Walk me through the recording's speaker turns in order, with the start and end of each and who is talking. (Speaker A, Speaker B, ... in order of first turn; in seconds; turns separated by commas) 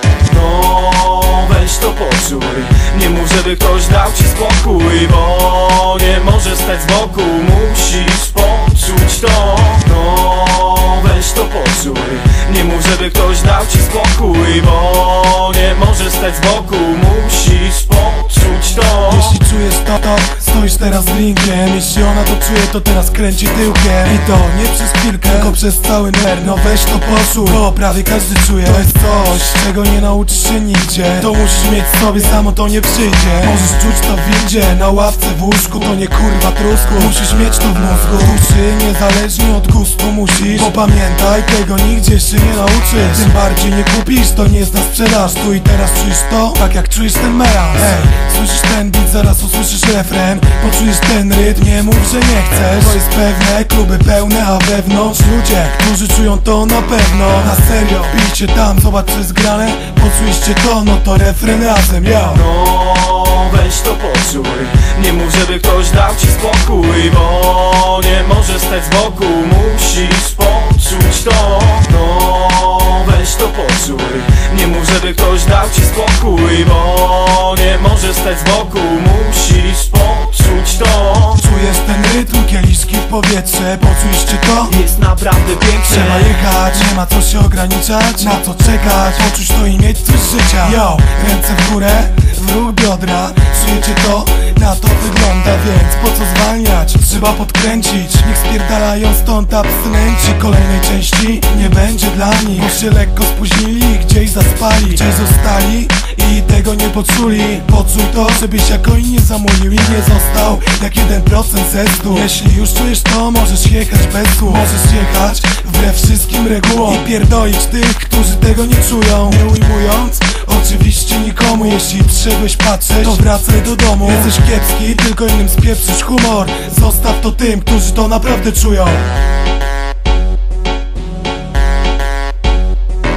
Speaker A: 0.2-19.3, Speaker B: 19.1-62.4, Speaker A: 62.4-81.4, Speaker B: 81.4-84.7, Speaker A: 84.7-86.4, Speaker B: 85.9-129.1